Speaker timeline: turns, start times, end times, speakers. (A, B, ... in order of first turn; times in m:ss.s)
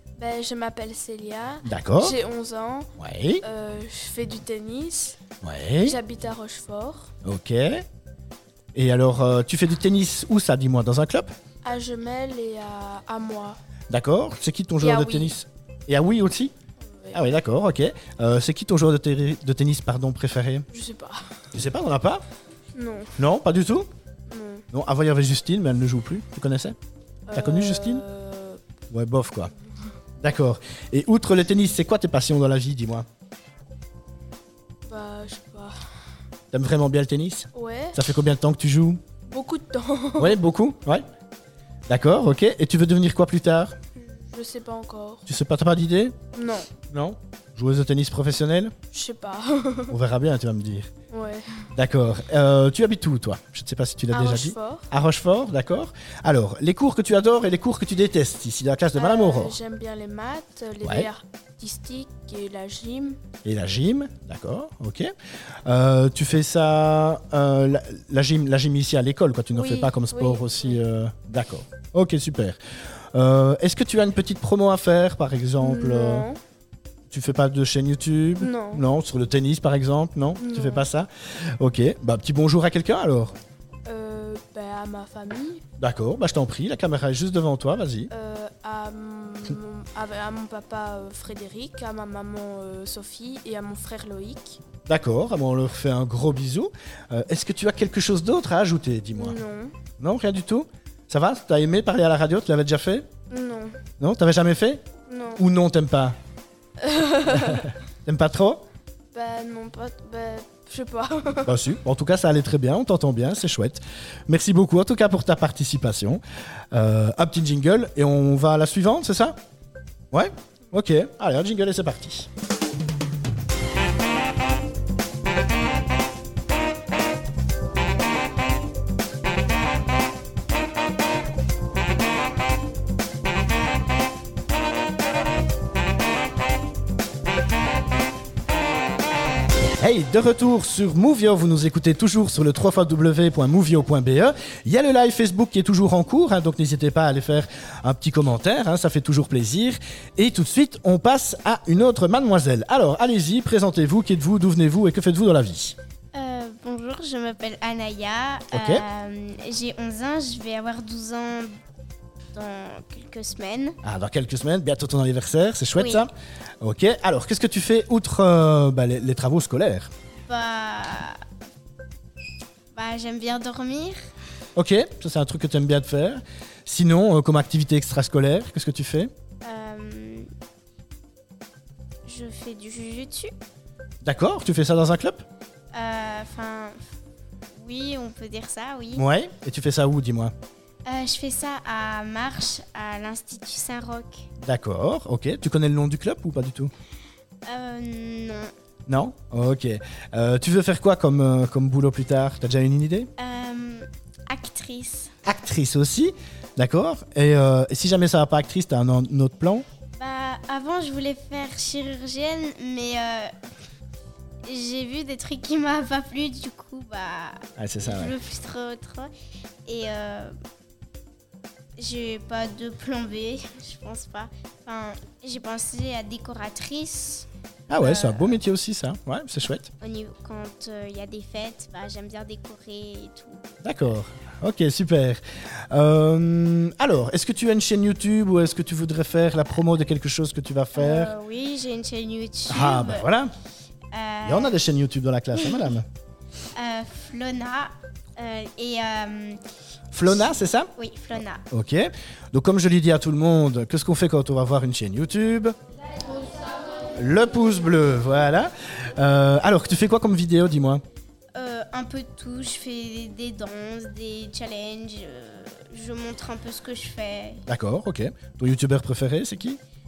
0:00.2-0:05.2 A
0:01.6-0:02.2 B
0:03.0-0:03.4 B
0:05.4-0:06.0 B
0:05.8-0:07.1 A
0:07.2-0:07.8 B
0:08.7-0:11.3 B
0:11.6-0:13.6 A
0:13.9-0:16.5 B
0:14.8-0:15.3 A
0:16.8-0:17.3 A
0:17.1-0:20.7 B
0:20.7-0:21.4 A
0:21.5-0:22.2 B
0:22.7-0:23.2 A
0:23.2-0:23.9 B
0:24.3-0:24.7 A
0:24.7-0:26.8 B
0:27.3-0:28.6 A
0:27.3-0:28.0 B
0:28.9-0:29.5 B
0:30.2-0:33.0 B
0:34.8-0:35.8 A
0:36.5-0:39.0 B
0:37.5-0:38.0 A
0:39.3-0:40.4 A
0:40.2-0:41.0 B
0:41.9-0:43.8 B
0:44.0-0:45.3 A
0:45.3-0:46.2 B
0:46.3-0:46.7 A
0:46.8-0:48.7 B
0:48.9-0:50.0 A
0:49.9-0:50.9 B
0:51.1-0:51.5 A
0:51.7-0:59.6 B
0:54.1-0:54.9 A
0:59.0-1:03.2 A
1:00.8-1:01.1 B
1:03.4-1:05.1 B
1:05.6-1:12.6 B
1:09.5-1:10.8 A
1:13.1-1:16.3 B
1:15.6-1:16.4 A
1:17.1-1:23.4 B
1:18.4-1:18.8 A
1:20.4-1:20.9 A
1:23.8-1:25.6 A
1:25.8-1:28.1 B
1:28.1-1:34.6 A
1:34.8-1:39.4 B
1:39.2-1:39.8 A
1:40.0-1:43.1 B
1:43.3-1:43.8 A
1:44.0-1:44.8 B
1:45.1-1:45.4 A
1:45.4-1:46.2 B
1:46.8-1:47.7 A
1:47.3-1:48.7 B
1:49.1-1:51.6 A
1:51.4-1:56.2 B
1:56.7-1:59.4 B
2:00.1-2:02.3 B
2:19.8-2:35.8 B
2:36.1-2:41.6 C
2:38.5-2:38.8 B
2:42.3-2:43.8 C
2:43.8-2:49.9 B
2:45.8-2:46.1 C
2:50.2-2:51.2 C
2:52.7-2:54.1 C
2:54.6-2:59.1 B
2:59.4-3:00.3 C
3:02.1-3:03.3 C
3:04.0-3:05.2 B
3:05.7-3:06.8 C
3:07.6-3:09.0 C
3:09.0-3:10.3 B
3:10.8-3:14.2 C
3:14.4-3:16.7 B
3:17.4-3:18.5 C
3:18.9-3:23.1 B
3:23.2-3:25.1 C
3:25.2-3:29.7 B
3:30.0-3:33.4 C
3:34.5-3:39.1 C
3:37.6-3:38.2 B
3:39.6-3:40.4 C
3:41.8-3:47.3 C
3:47.7-3:49.7 B
3:47.8-3:48.4 C
3:49.8-3:53.6 C
3:53.6-4:01.1 B
4:00.8-4:03.1 C
4:02.5-4:03.3 B
4:03.9-4:04.6 C
4:04.2-4:05.8 B
4:06.5-4:09.4 C
4:09.9-4:15.5 B
4:10.1-4:11.4 C
4:16.9-4:20.8 B
4:21.3-4:27.4 C
4:27.5-4:29.6 B